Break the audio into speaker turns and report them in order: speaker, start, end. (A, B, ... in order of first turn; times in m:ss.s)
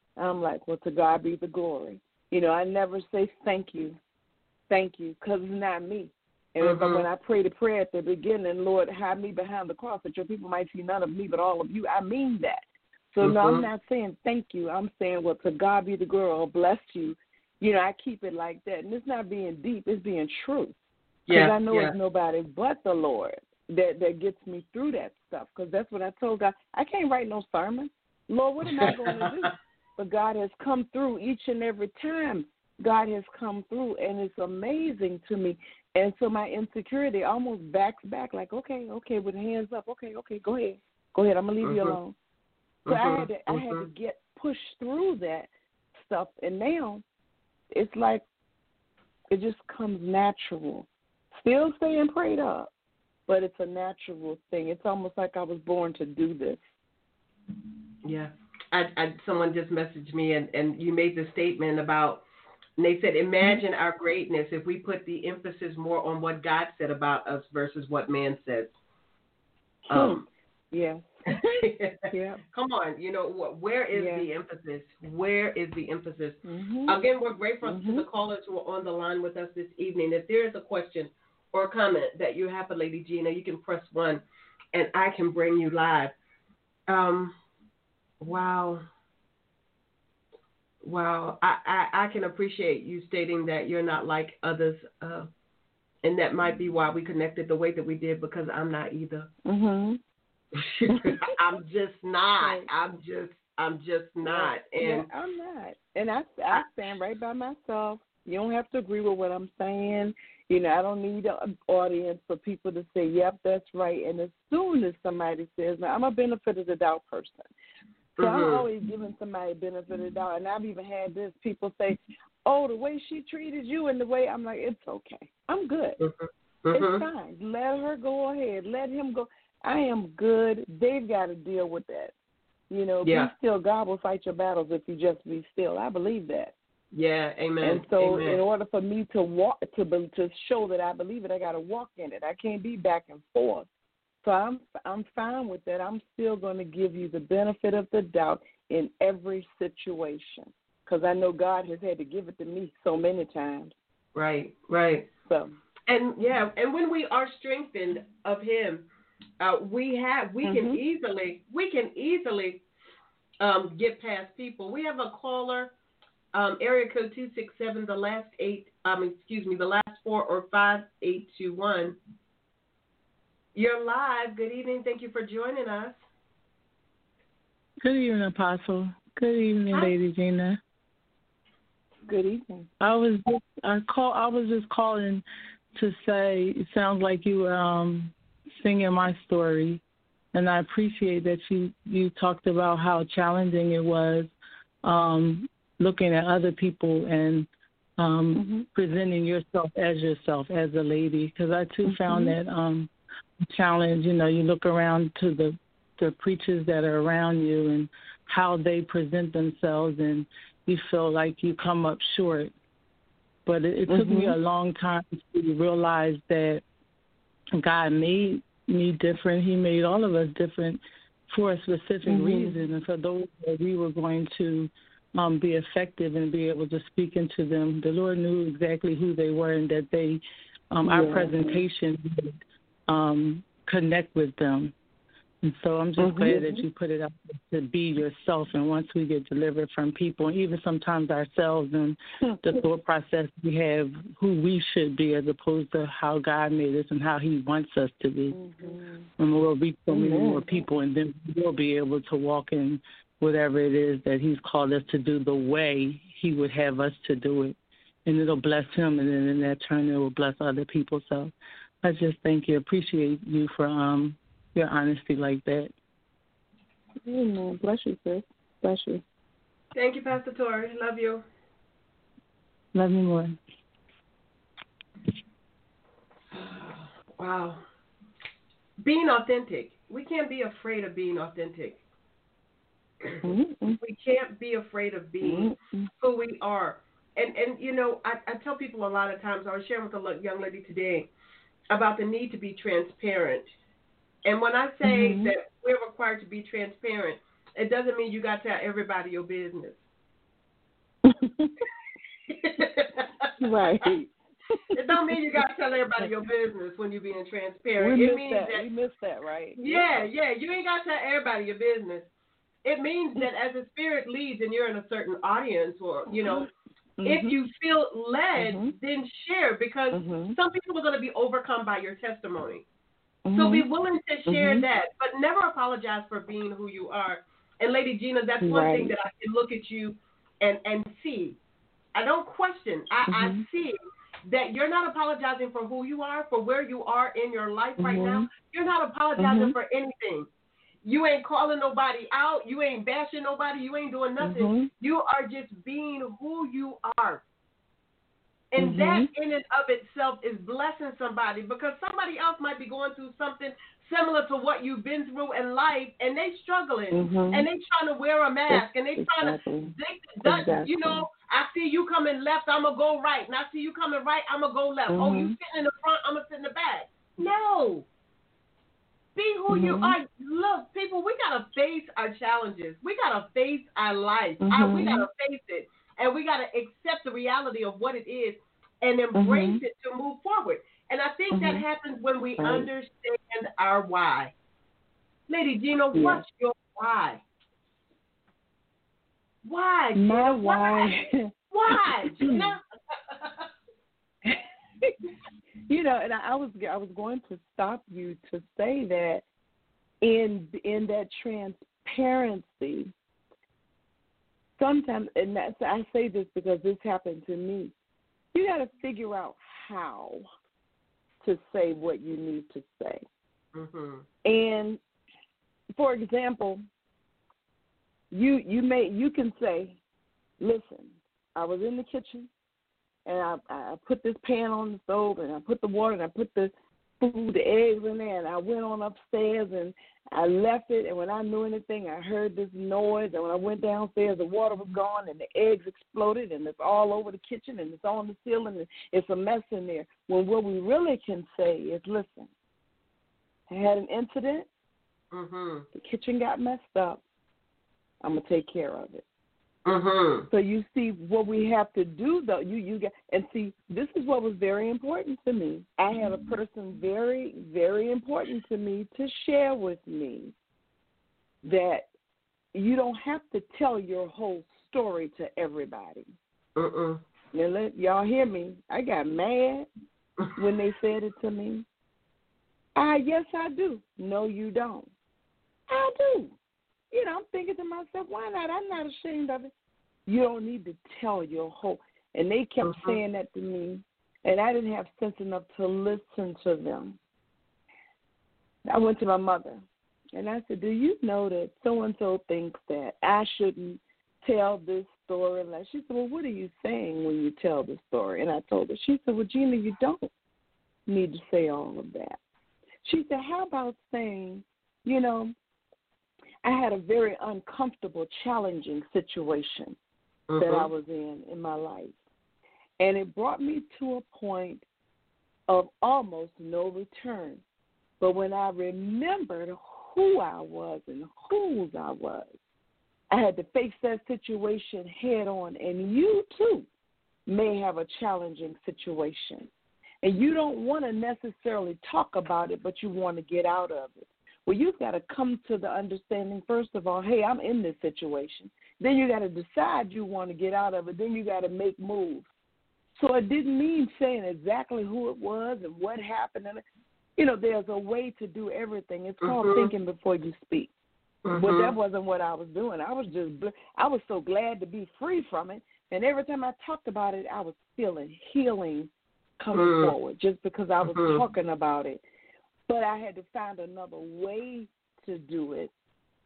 0:00.2-0:04.0 A
0:04.7-0:12.6 A
0:06.6-0:07.0 B
0:13.1-0:20.8 A
0:13.2-0:13.6 B
0:21.3-0:21.9 B
0:21.3-0:42.2 A
0:28.7-0:29.5 B
0:41.6-0:42.0 B
0:42.8-0:43.8 B
0:42.9-0:47.0 A
0:47.7-0:48.2 A
0:49.3-0:52.7 A
0:53.3-0:56.6 A
0:58.0-1:02.2 B
1:02.8-1:08.7 B
1:09.9-1:11.6 A
1:09.9-1:10.2 B
1:11.3-1:24.2 B
1:12.1-1:12.4 A
1:13.9-1:14.3 A
1:16.4-1:17.0 A
1:17.6-1:18.0 A
1:24.7-1:26.1 B
1:26.9-1:27.4 B
1:28.2-1:28.8 B
1:30.8-1:35.3 B
1:36.0-1:39.3 B
1:39.4-1:40.0 A
1:40.5-1:45.1 B
1:40.9-1:41.3 A
1:42.4-1:42.7 A
1:44.2-1:57.5 A
1:58.2-1:58.6 B
1:58.2-2:06.0 A
2:06.0-2:07.0 B
2:06.7-2:12.1 A
2:12.7-2:16.5 A
2:13.0-2:13.3 B
2:16.9-2:18.4 B
2:17.6-2:23.7 A
2:24.2-2:33.7 A
2:34.1-2:35.1 B
2:35.2-2:35.6 A
2:35.9-2:38.8 B
2:39.4-2:42.6 B
2:40.4-2:40.8 A
2:43.4-2:45.7 B
2:46.3-2:52.0 B
2:53.5-2:56.0 B
2:57.8-3:00.6 C
3:02.1-3:02.7 A
3:02.8-3:05.2 C
3:05.8-3:09.8 C
3:10.3-3:14.3 C
3:14.8-3:17.5 C
3:18.0-3:22.9 C
3:18.3-3:18.6 A
3:21.8-3:22.4 A
3:23.5-3:32.5 C
3:33.4-3:36.6 C
3:33.9-3:34.3 A
3:37.5-3:54.7 C
3:42.0-3:42.6 A
3:50.8-3:51.6 A
3:55.4-4:08.4 C
3:56.0-3:56.6 A
4:08.3-4:09.1 A
4:09.2-4:25.7 C
4:09.9-4:10.5 A
4:27.0-4:29.0 A
4:29.7-4:31.2 B
4:32.7-4:33.4 C
4:36.3-4:37.6 B
4:38.8-4:41.8 B
4:43.2-4:43.8 A
4:43.8-4:51.1 B
4:45.2-4:45.9 A
4:51.7-4:53.5 B
4:54.2-4:59.8 B
4:54.8-4:55.3 A
5:01.0-5:01.6 A
5:02.3-5:03.3 B
5:03.4-5:04.1 A
5:04.7-5:08.6 B
5:07.8-5:09.9 A
5:09.6-5:12.1 B
5:12.6-5:16.5 B
5:16.1-5:17.4 A
5:17.0-5:22.6 B
5:18.4-5:18.7 A
5:19.9-5:20.4 A
5:23.2-5:23.6 A
5:23.3-5:31.4 B
5:24.3-5:24.6 A
5:28.4-5:28.9 A
5:31.9-5:40.3 B
5:33.1-5:33.4 A
5:37.8-5:38.3 A
5:39.2-5:39.5 A
5:40.8-5:47.2 B
5:44.2-5:44.7 A
5:48.5-6:07.9 B
5:48.6-5:49.1 A
5:56.9-5:57.4 A
5:58.5-5:59.7 A
6:00.2-6:01.1 A
6:04.9-6:05.3 A
6:09.2-6:24.3 B
6:09.5-6:10.0 A
6:14.4-6:15.1 A
6:19.2-6:19.6 A
6:21.3-6:21.6 A
6:22.4-6:22.7 A
6:25.3-6:27.2 B
6:25.9-6:26.2 A
6:29.4-6:31.0 B
6:29.9-6:32.5 A
6:31.5-6:32.6 B
6:33.1-6:33.4 B
6:34.2-6:34.9 A
6:35.7-6:39.2 A
6:40.0-6:42.9 A
6:44.6-6:47.7 A
6:48.3-6:50.3 A
6:51.2-6:53.0 A
6:53.5-6:54.0 B
6:54.2-6:54.8 A
6:55.8-6:56.6 A
6:58.1-6:59.8 A
7:00.4-7:02.3 A
7:03.0-7:22.3 A
7:23.5-7:24.5 A
7:25.1-7:25.6 B
7:25.7-7:27.0 A
7:28.0-7:29.0 A
7:29.6-7:30.3 B
7:30.3-7:40.3 A
7:41.4-7:41.9 A
7:42.5-7:46.1 A
7:46.6-7:47.0 B
7:47.3-7:49.7 A
7:50.4-7:51.6 A
7:52.8-7:54.9 A
7:55.7-7:56.4 A
7:56.9-7:59.5 A
8:00.0-8:07.0 A
8:02.6-8:03.0 B
8:08.7-8:09.6 A
8:10.1-8:20.1 A
8:20.9-8:22.2 A
8:22.8-8:25.3 A
8:26.4-8:29.8 A
8:30.3-8:30.7 B
8:30.4-8:32.0 A
8:32.8-8:34.6 A
8:35.5-8:37.4 A
8:38.0-8:42.3 A
8:43.1-8:46.7 A
8:47.2-8:49.5 A
8:50.0-9:02.3 A
9:03.0-9:06.6 A
9:07.2-9:10.7 A
9:09.2-9:09.7 B
9:11.2-9:11.7 B
9:11.3-9:22.0 A
9:19.5-9:19.9 B
9:20.8-9:21.2 B
9:22.7-9:25.7 A